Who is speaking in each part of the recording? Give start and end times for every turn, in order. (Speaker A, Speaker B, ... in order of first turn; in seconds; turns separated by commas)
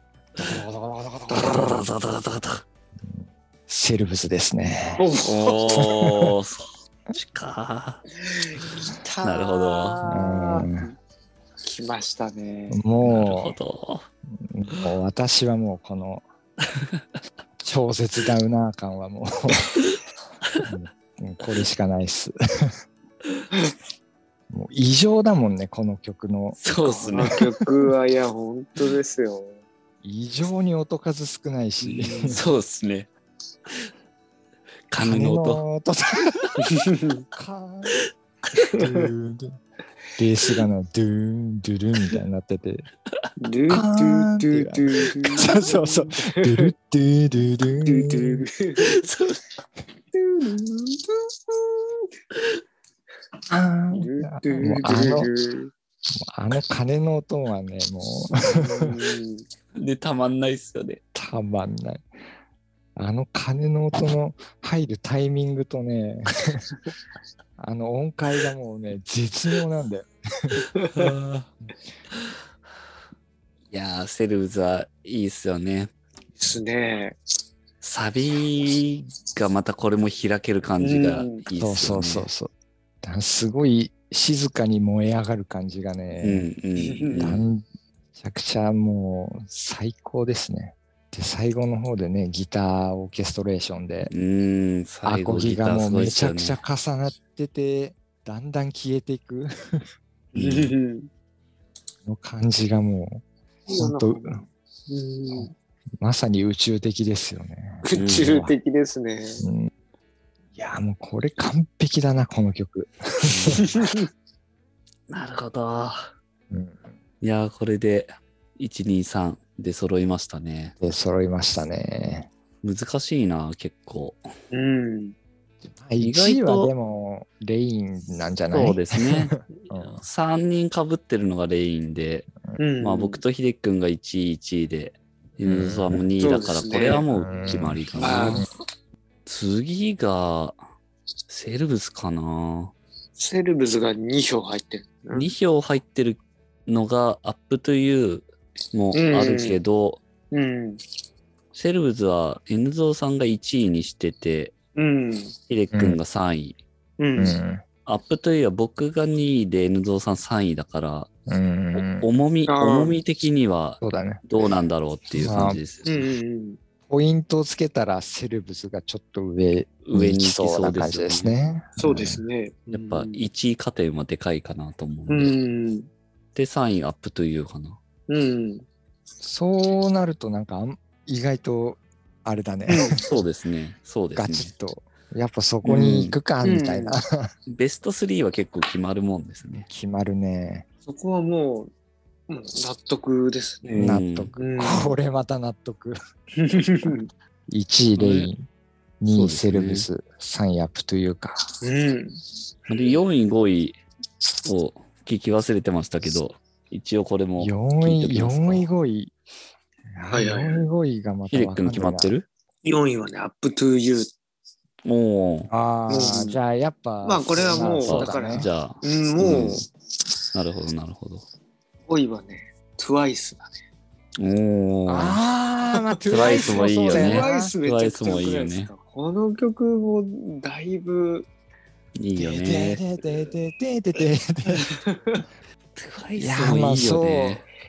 Speaker A: 0.4-1.7, Speaker B: 1.3-2.6, Speaker A: 3.0-5.0, Speaker C: 5.0-5.8, Speaker B: 5.2-8.0, Speaker A: 5.8-6.3, Speaker C: 8.2-10.9, Speaker B: 9.2-10.0, Speaker A: 10.1-10.9, Speaker C: 11.6-12.9, Speaker A: 12.7-13.6, Speaker B: 13.0-14.1, Speaker A: 14.4-16.2, Speaker B: 16.8-17.2, Speaker A: 17.6-19.7, Speaker B: 19.8-20.7, Speaker A: 20.6-22.8, Speaker A: 24.5-27.4, Speaker B: 26.6-27.4, Speaker C: 27.1-29.6, Speaker A: 30.0-32.4, Speaker C: 31.9-32.4, Speaker B: 32.2-33.1, Speaker B: 34.9-35.6, Speaker A: 35.0-36.6, Speaker C: 36.6-37.2, Speaker A: 37.3-38.0, Speaker C: 38.7-39.1, Speaker A: 38.8-39.6, Speaker A: 40.2-42.9, Speaker C: 43.4-46.7, Speaker A: 43.7-48.5, Speaker C: 47.9-49.0, Speaker B: 48.8-49.4, Speaker C: 50.1-52.1, Speaker A: 53.5-55.3, Speaker C: 53.9-55.7, Speaker A: 56.2-59.0, Speaker C: 58.5-59.5, Speaker B: 59.8-61.0, Speaker A: 61.1-62.0, Speaker A: 63.0-66.7, Speaker A: 67.6-70.7, Speaker C: 70.8-71.1, Speaker B: 70.9-71.5, Speaker B: 73.7-75.9, Speaker C: 76.4-77.2, Speaker B: 77.8-82.3, Speaker C: 80.8-81.4, Speaker A: 81.6-82.5, Speaker A: 83.0-86.5, Speaker B: 86.2-87.5, Speaker C: 86.8-87.4, Speaker A: 87.2-87.7, Speaker A: 88.2-94.1, Speaker B: 94.1-96.6, Speaker A: 95.0-99.8, Speaker C: 100.3-101.1, Speaker B: 100.4-100.7, Speaker A: 102.1-103.2, Speaker C: 103.7-105.5, Speaker A: 103.8-104.4, Speaker A: 106.0-108.5, Speaker C: 107.8-109.4, Speaker B: 107.9-108.4, Speaker A: 109.4-109.7, Speaker A: 110.6-113.6, Speaker B: 113.2-113.7, Speaker C: 113.6-114.1, Speaker B: 115.1-116.1, Speaker A: 116.5-116.9, Speaker B: 117.2-120.8, Speaker A: 120.8-122.3, Speaker B: 122.6-124.3, Speaker C: 124.5-125.2, Speaker A: 125.6-130.0, Speaker B: 126.0-126.7, Speaker B: 128.5-132.3, Speaker C: 132.6-133.2, Speaker B: 132.8-138.5, Speaker A: 135.4-136.0, Speaker C: 136.2-137.1, Speaker A: 137.1-138.5, Speaker C: 138.0-138.5, Speaker B: 139.2-140.6, Speaker B: 141.3-142.7, Speaker C: 143.2-145.3, Speaker B: 145.1-150.0, Speaker C: 148.9-149.6, Speaker C: 150.3-150.8, Speaker B: 151.5-154.6, Speaker C: 154.8-155.3, Speaker B: 155.5-156.6, Speaker A: 155.7-156.0, Speaker C: 157.0-157.4, Speaker A: 157.2-157.6, Speaker B: 157.9-161.1, Speaker A: 161.3-162.1, Speaker B: 162.0-166.1, Speaker C: 162.5-163.0, Speaker A: 163.8-164.2, Speaker A: 165.2-165.6, Speaker C: 165.8-166.6, Speaker A: 166.9-172.2, Speaker B: 169.8-171.3, Speaker C: 171.8-173.3, Speaker B: 172.7-175.3, Speaker C: 175.1-175.9, Speaker B: 176.3-177.8, Speaker C: 178.1-178.7, Speaker A: 179.2-183.1, Speaker C: 182.7-183.0, Speaker B: 183.0-184.5, Speaker A: 184.2-187.3, Speaker B: 185.6-186.2, Speaker C: 186.4-187.0, Speaker B: 187.5-189.7, Speaker A: 189.7-190.7, Speaker C: 190.9-191.7, Speaker C: 192.3-194.9, Speaker B: 193.7-194.3, Speaker A: 193.8-196.0, Speaker C: 196.4-197.1, Speaker A: 197.5-198.5, Speaker B: 198.0-198.3, Speaker A: 199.0-201.5, Speaker B: 199.1-199.9, Speaker C: 201.6-202.2, Speaker B: 202.7-203.8, Speaker B: 204.4-208.7, Speaker A: 207.4-209.1, Speaker A: 209.9-212.1, Speaker C: 210.1-210.7, Speaker B: 211.3-212.3, Speaker C: 212.6-214.1, Speaker B: 214.8-215.5, Speaker A: 215.5-218.5, Speaker C: 215.9-216.4, Speaker C: 217.0-219.7, Speaker B: 217.8-219.6, Speaker B: 220.3-221.3, Speaker C: 221.9-223.5, Speaker B: 224.2-225.2, Speaker A: 224.9-227.5, Speaker C: 225.8-231.3, Speaker B: 226.1-228.7, Speaker B: 232.0-232.8, Speaker C: 232.2-233.3, Speaker A: 232.4-234.7, Speaker C: 234.6-235.2, Speaker B: 235.8-237.5, Speaker A: 236.2-237.4